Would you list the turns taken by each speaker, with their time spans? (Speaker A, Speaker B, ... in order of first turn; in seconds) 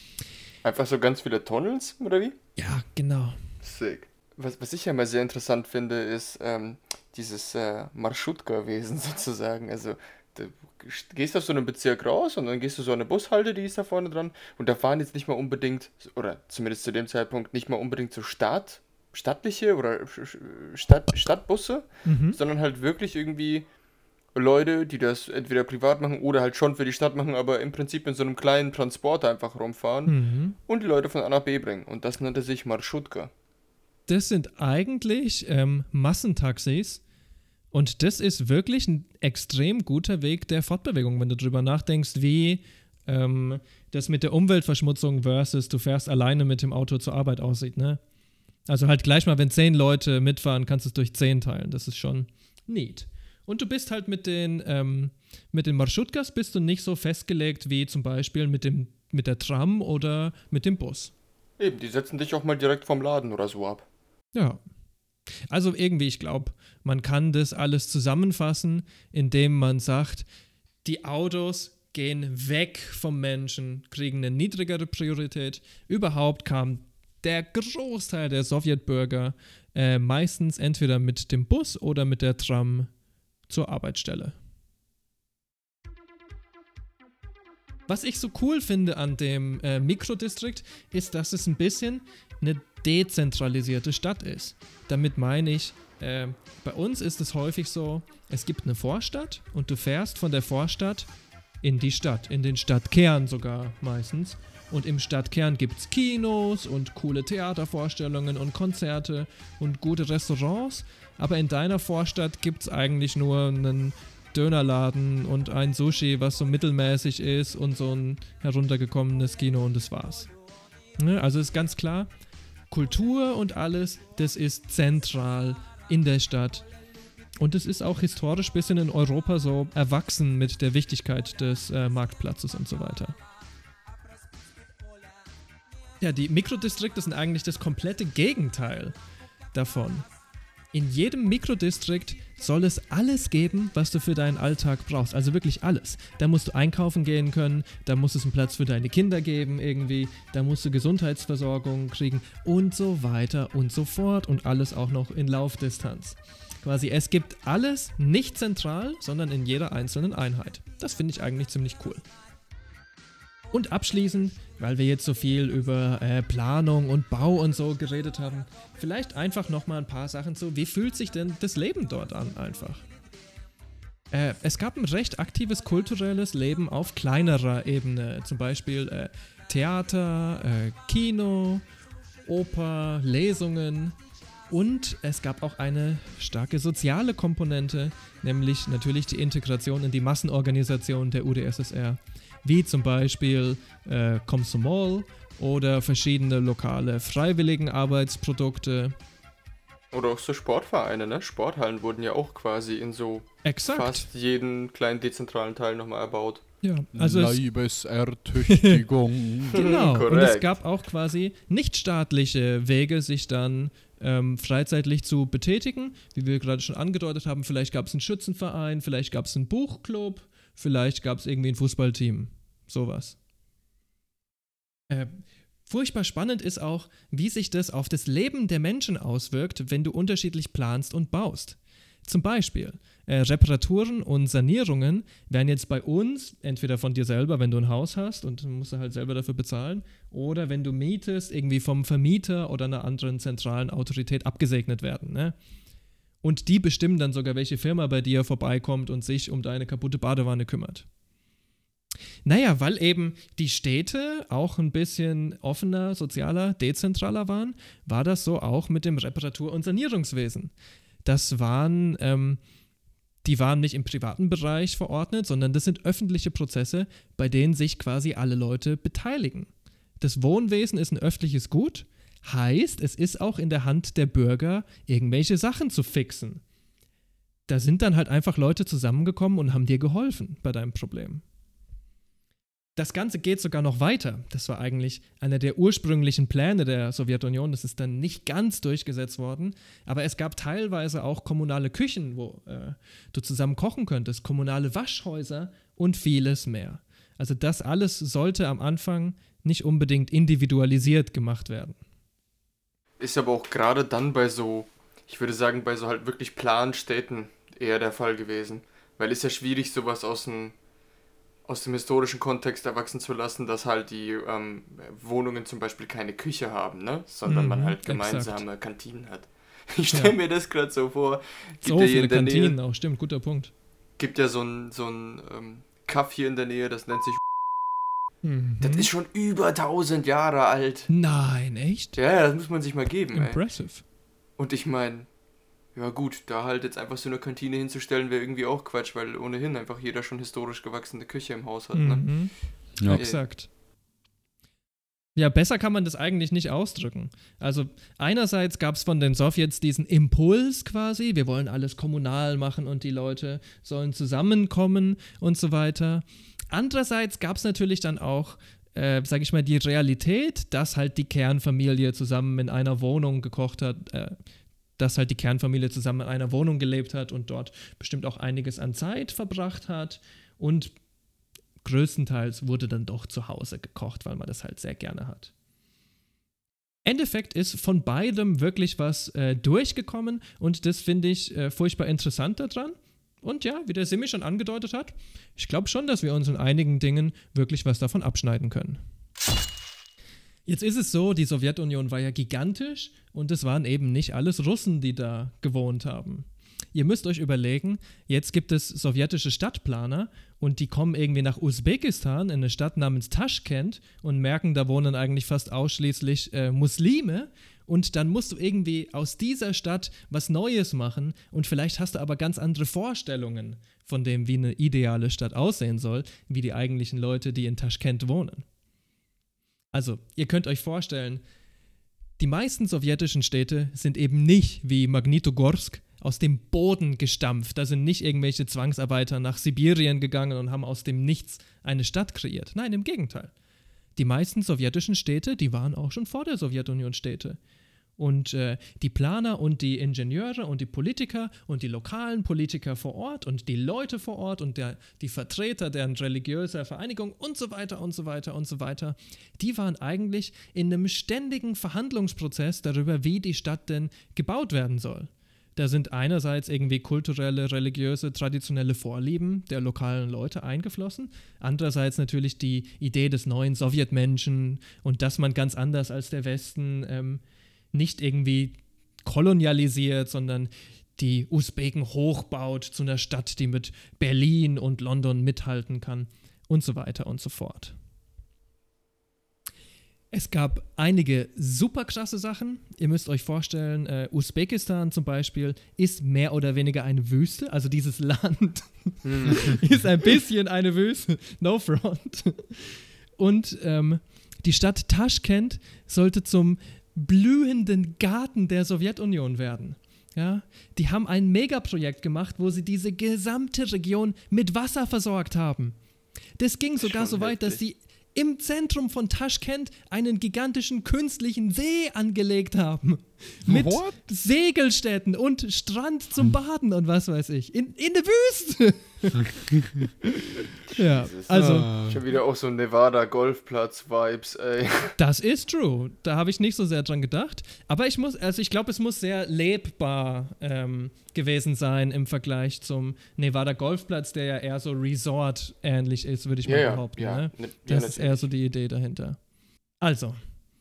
Speaker A: 0.6-2.4, 3.6-23.7, 24.3-30.1, 30.7-33.3, 61.6-63.9, 199.9-206.4, 209.5-210.5, 303.0-310.5, 311.5-322.6, 324.0-327.2, 328.6-330.9, 332.0-333.4, 334.4-335.1, 335.8-342.1, 342.9-343.2, 489.0-489.6, 506.8-507.6, 520.7-525.0, 536.5-538.3
Speaker B: 2.6-3.4, 22.1-22.4, 30.1-30.6, 34.1-37.0, 37.7-48.0, 48.7-61.1, 64.3-64.6, 65.5-70.3, 70.8-82.9, 83.5-84.4, 87.9-101.1, 101.6-120.3, 121.0-122.1, 122.7-126.7, 127.4-133.2, 136.0-139.0, 139.5-140.1, 140.7-162.0, 163.5-172.8, 174.1-181.7, 182.3-184.0, 184.5-199.0, 203.4-204.1, 206.6-207.4, 208.5-208.8, 209.5-223.2, 224.9-245.4, 246.2-250.8, 252.2-260.5, 261.1-262.4, 263.2-269.5, 270.0-276.4, 277.5-281.2, 282.8-301.8, 317.3-318.4, 321.6-323.5, 328.2-328.9, 330.9-332.0, 333.1-333.8, 341.7-342.3, 342.8-343.5, 345.2-364.2, 364.8-370.7, 371.6-375.3, 376.9-388.8, 390.5-418.4, 419.7-421.2, 422.2-433.3, 434.0-437.4, 438.0-467.2, 467.7-477.8, 480.1-505.8, 506.4-519.3, 520.8-521.7, 525.0-539.2, 539.8-540.2
Speaker C: 206.9-209.7, 513.5-514.0, 521.3-522.0